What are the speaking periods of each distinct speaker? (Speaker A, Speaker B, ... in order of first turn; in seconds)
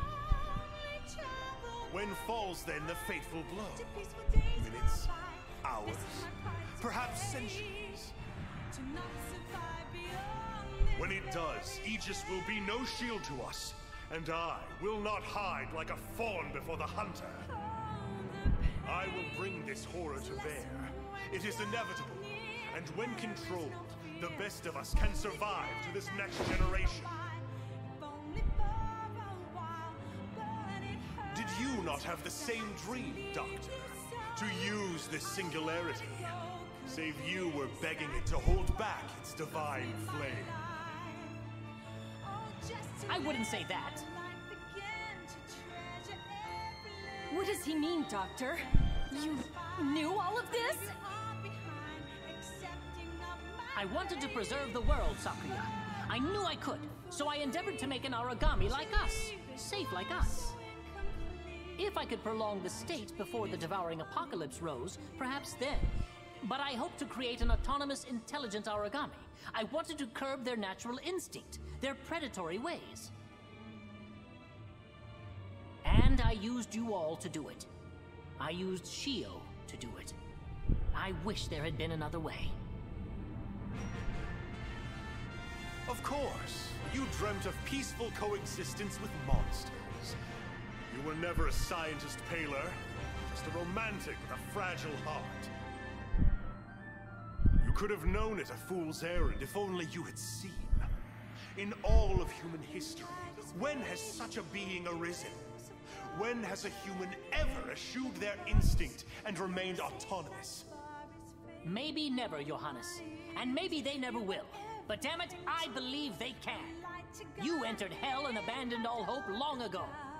Speaker A: 1.9-8.1, 10.9-17.5, 18.8-27.2, 31.3-40.6, 85.9-90.2, 90.9-95.5, 97.6-100.9, 101.5-105.5, 106.1-110.7
Speaker B: 43.0-44.1, 53.7-60.6, 61.8-73.1, 75.8-77.7, 78.4-80.2, 80.9-82.5, 111.6-116.8, 117.3-120.0
Speaker C: 47.3-50.9